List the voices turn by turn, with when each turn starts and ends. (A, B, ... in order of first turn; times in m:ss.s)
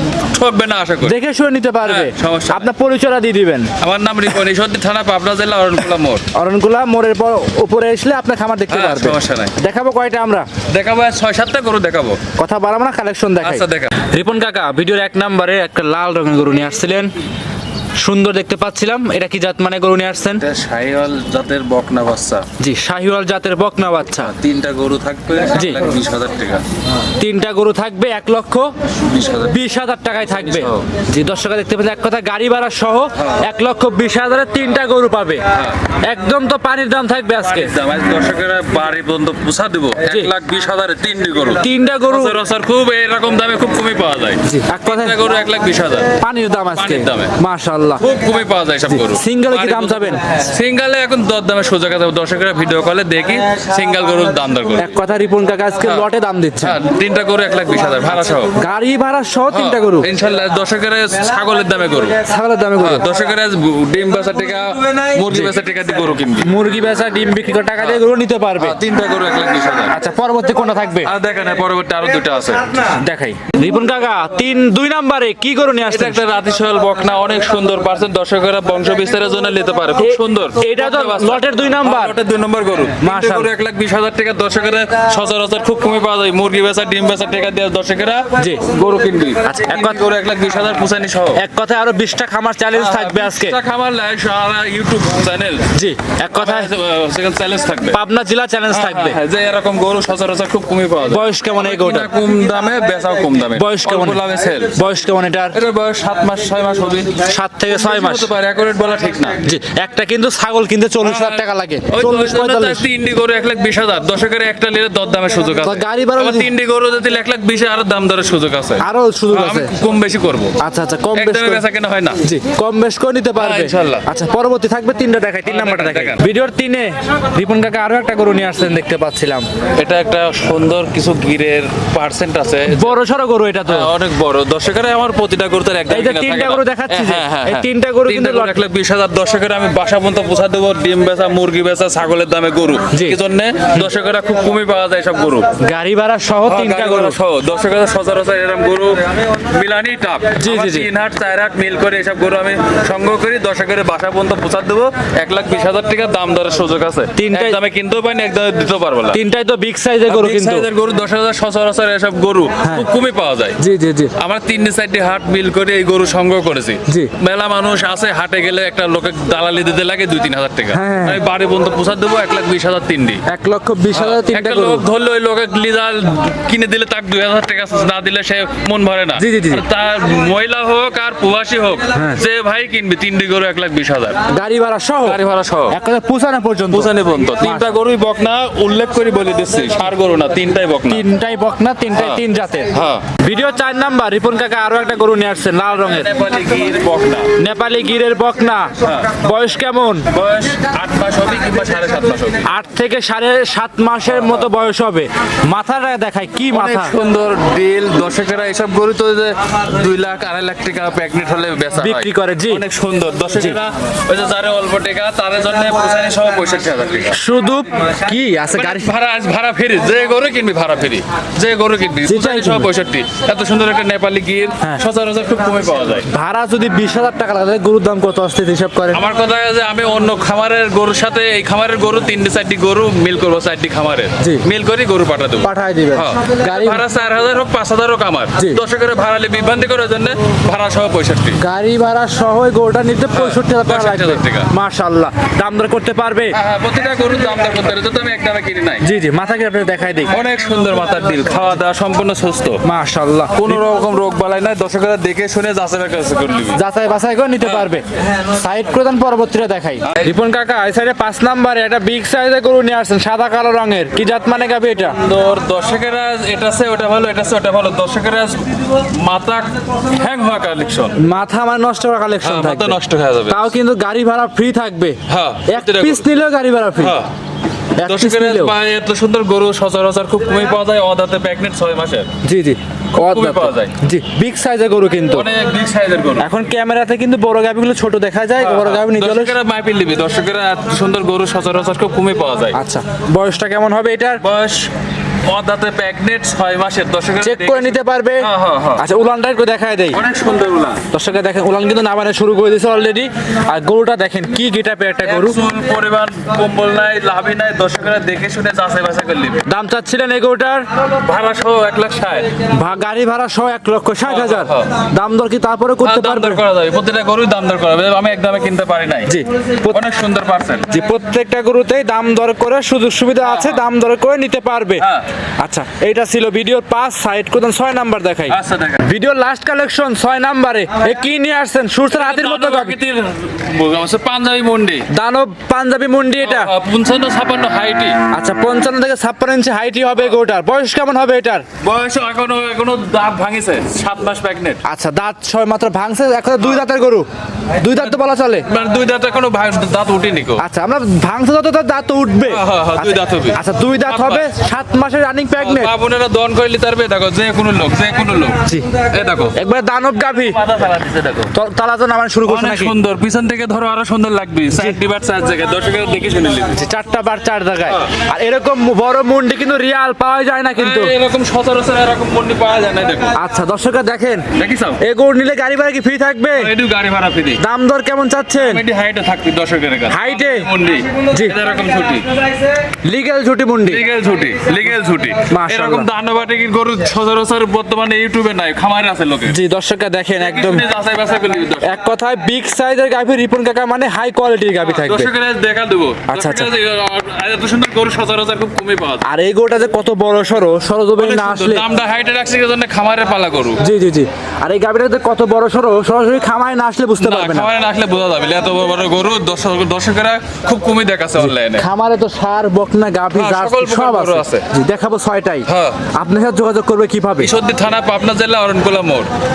0:00.2-0:01.2 A
0:01.0-0:03.7 B
0:01.8-0:02.7 A
0:03.8-0:06.2 A
0:06.3-0:10.5 B
0:08.7-0:09.5 A
0:10.7-0:12.2 A
0:12.4-0:17.1 B
0:13.4-0:14.0 A
0:18.0-0:20.4 B
0:20.4-0:22.5 A
0:22.6-0:24.3 B
0:24.2-0:26.6 A
0:25.5-0:25.8 B
0:27.2-0:28.7 B
0:29.1-0:29.6 A
0:29.5-0:35.4 B
0:30.2-0:30.9 A
0:33.2-0:33.4 A
0:35.5-0:35.8 A
0:36.0-0:37.7 B
0:37.4-0:46.2 A
0:40.1-0:40.3 B
0:41.6-0:42.4 B
0:44.4-0:45.2 B
0:46.2-0:48.0 B
0:46.7-0:47.3 A
0:48.0-0:55.0 A
0:48.9-0:50.2 B
0:54.8-0:56.8 B
0:55.8-0:56.1 A
0:56.6-0:58.6 A
0:58.6-1:00.1 B
0:59.5-1:02.2 A
1:02.2-1:03.1 B
1:02.8-1:06.5 A
1:06.4-1:08.8 B
1:07.8-1:08.0 A
1:08.6-1:10.0 A
1:09.9-1:11.1 B
1:11.0-1:13.0 A
1:12.9-1:16.2 B
1:15.9-1:31.4 A
1:20.0-1:22.2 B
1:23.0-1:23.5 B
1:29.4-1:30.0 B
1:31.3-1:33.6 B
1:32.7-1:35.7 A
1:35.7-1:36.7 B
1:36.3-1:38.0 A
1:37.9-1:39.2 B
1:38.7-1:44.8 A
1:41.1-1:42.1 B
1:43.5-1:44.2 B
1:44.8-1:45.6 B
1:45.5-1:49.4 A
1:47.2-1:48.3 B
1:49.4-1:52.9 B
1:51.0-2:00.5 A
1:55.6-1:56.5 B
1:58.8-1:59.7 B
2:00.6-2:01.6 B
2:01.1-2:02.2 A
2:02.2-2:09.5 B
2:03.4-2:04.1 A
2:05.4-2:06.2 A
2:09.8-2:13.0 A
2:12.7-2:13.9 B
2:13.7-2:25.5 A
2:15.9-2:18.6 B
2:22.9-2:23.2 B
2:25.6-2:27.2 B
2:26.4-2:39.2 A
2:30.4-2:30.9 B
2:37.2-2:37.6 B
2:39.1-2:40.7 B
2:40.1-2:43.6 A
2:42.6-2:42.9 B
2:43.6-2:44.1 B
2:44.2-2:53.2 A
2:50.7-2:51.2 B
2:53.3-2:54.8 B
2:53.9-3:04.2 A
2:59.2-2:59.6 B
3:01.9-3:02.2 B
3:04.3-3:07.7 B
3:05.0-3:05.8 A
3:06.7-3:11.0 A
3:10.9-3:16.1 B
3:11.9-3:13.0 A
3:15.8-3:17.3 A
3:17.4-3:20.0 B
3:18.8-3:19.2 A
3:20.1-3:22.5 A
3:22.5-3:26.9 B
3:24.1-3:24.6 A
3:26.5-3:37.2 A
3:31.8-3:32.6 B
3:37.1-3:38.9 B
3:38.5-3:46.1 A
3:42.0-3:42.7 B
3:46.1-3:49.0 B
3:48.9-4:01.4 A
3:55.4-3:56.8 B
4:01.4-4:06.4 B
4:03.1-4:04.5 A
4:06.3-4:08.9 A
4:08.8-4:10.2 B
4:10.1-4:12.6 A
4:12.6-4:13.6 B
4:13.3-4:16.6 A
4:16.5-4:25.0 B
4:17.4-4:17.7 A
4:19.8-4:20.2 A
4:24.9-4:31.0 A
4:31.0-4:37.0 B
4:32.2-4:33.5 A
4:35.1-4:36.2 A
4:36.8-4:37.1 A
4:37.8-4:38.6 B
4:37.8-4:42.1 A
4:42.2-4:45.3 B
4:42.9-4:43.7 A
4:45.1-4:46.3 A
4:46.2-4:49.4 B
4:48.4-4:52.6 A
4:52.5-4:54.2 B
4:54.2-4:54.7 A
4:55.3-4:58.9 A
4:57.2-5:00.0 B
4:59.9-5:00.8 A
5:00.9-5:05.4 B
5:05.0-5:09.4 A
5:09.5-5:10.7 B
5:11.0-5:12.3 A
5:12.5-5:16.4 B
5:14.0-5:14.7 A
5:15.8-5:20.8 A
5:19.1-5:19.8 B
5:20.7-5:24.9 B
5:23.2-5:23.6 A
5:24.8-5:25.1 A
5:25.4-5:32.8 B
5:28.3-5:28.9 A
5:31.9-5:34.9 A
5:34.9-5:36.5 B
5:36.2-5:38.0 A
5:38.1-5:41.4 B
5:41.6-5:44.6 A
5:44.6-5:47.1 B
5:47.6-5:48.5 B
5:47.7-5:50.4 A
5:50.4-5:55.7 B
5:52.3-5:54.3 A
5:55.4-5:59.4 A
5:59.4-6:00.4 B
6:00.0-6:01.3 A
6:01.3-6:02.7 B
6:02.2-6:06.6 A
6:04.5-6:04.8 B
6:06.5-6:10.9 B
6:10.6-6:13.2 A
6:13.2-6:14.3 B
6:14.4-6:14.8 A
6:14.8-6:16.5 B
6:16.3-6:17.4 A
6:17.4-6:18.6 B
6:18.4-6:22.2 A
6:19.9-6:20.5 B
6:21.1-6:21.4 B
6:22.8-6:23.8 B
6:23.7-6:29.4 A
6:25.3-6:25.9 B
6:29.3-6:30.7 B
6:30.2-6:31.8 A
6:31.6-6:35.1 B
6:34.6-6:39.0 A
6:36.1-6:36.5 B
6:39.0-6:41.6 B
6:41.0-6:43.6 A
6:43.6-6:47.5 B
6:47.0-6:51.7 A
6:51.2-6:57.3 B
6:53.1-6:54.4 A
6:55.5-6:55.8 A
6:57.2-6:59.1 A